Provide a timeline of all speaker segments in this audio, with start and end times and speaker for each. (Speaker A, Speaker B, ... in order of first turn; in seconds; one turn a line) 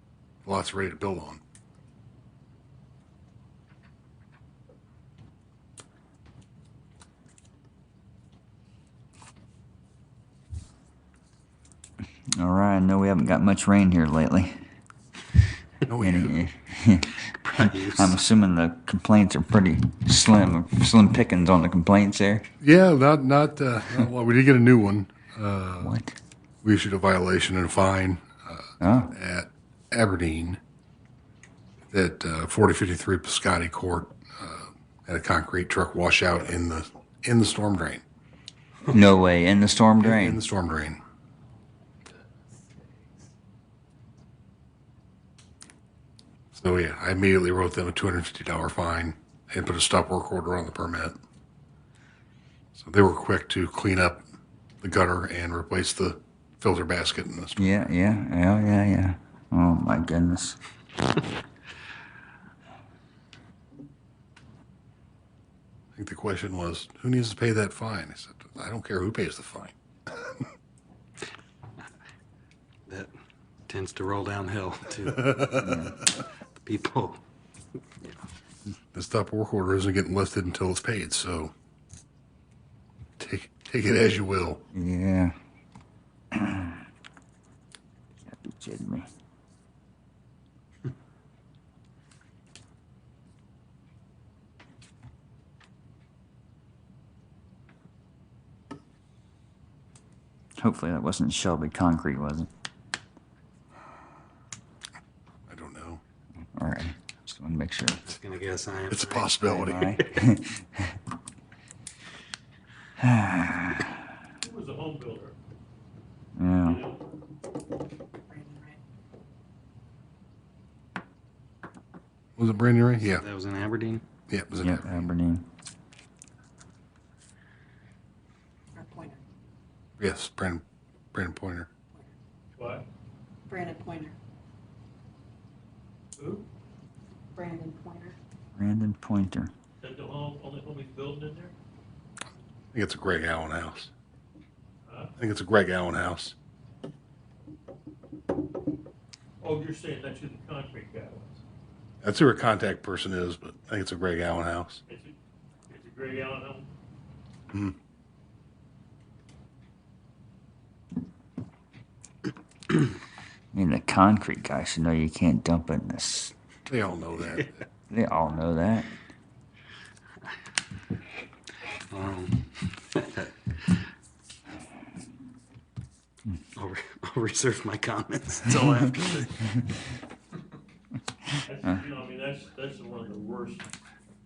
Speaker A: 0.5-1.4
Speaker B: 12.3-14.6
Speaker A: 15.9-16.5
Speaker B: 16.0-22.5
Speaker C: 17.5-18.0
Speaker A: 22.6-26.0
Speaker B: 25.8-26.2
Speaker A: 26.6-30.6
Speaker B: 28.8-29.1
Speaker A: 31.9-38.0
Speaker B: 38.9-40.4
Speaker A: 40.0-41.0
Speaker A: 46.5-51.2
Speaker A: 52.8-54.2
Speaker A: 54.8-57.8
Speaker B: 57.6-60.6
Speaker A: 66.0-70.3
Speaker C: 73.7-75.7
Speaker A: 75.2-75.8
Speaker B: 75.6-76.0
Speaker C: 76.6-77.2
Speaker A: 78.9-81.5
Speaker A: 83.2-84.6
Speaker B: 84.7-85.3
Speaker B: 86.3-86.8
Speaker B: 88.3-89.1
Speaker B: 100.6-102.5
Speaker A: 105.5-106.0
Speaker B: 106.6-108.0
Speaker C: 108.1-109.3
Speaker A: 108.9-110.0
Speaker B: 109.5-110.9
Speaker B: 113.0-114.0
Speaker D: 114.4-115.3
Speaker B: 116.4-116.8
Speaker D: 116.7-117.0
Speaker E: 118.3-118.8
Speaker A: 122.4-123.2
Speaker C: 123.2-124.0
Speaker A: 124.3-125.1
Speaker B: 124.6-125.4
Speaker E: 128.8-129.2
Speaker A: 130.0-130.6
Speaker A: 131.1-131.7
Speaker D: 132.6-132.8
Speaker E: 133.5-134.2
Speaker D: 136.2-136.4
Speaker E: 137.3-138.2
Speaker B: 138.6-139.5
Speaker D: 139.8-141.5
Speaker A: 142.7-143.9
Speaker D: 144.9-145.1
Speaker A: 145.2-146.3
Speaker D: 149.4-151.4
Speaker A: 152.0-154.8
Speaker D: 154.9-155.1
Speaker D: 155.7-156.7
Speaker B: 163.5-166.3
Speaker A: 166.7-167.6
Speaker B: 167.9-168.9
Speaker C: 171.9-173.3
Speaker C: 176.6-179.4
Speaker D: 181.4-183.7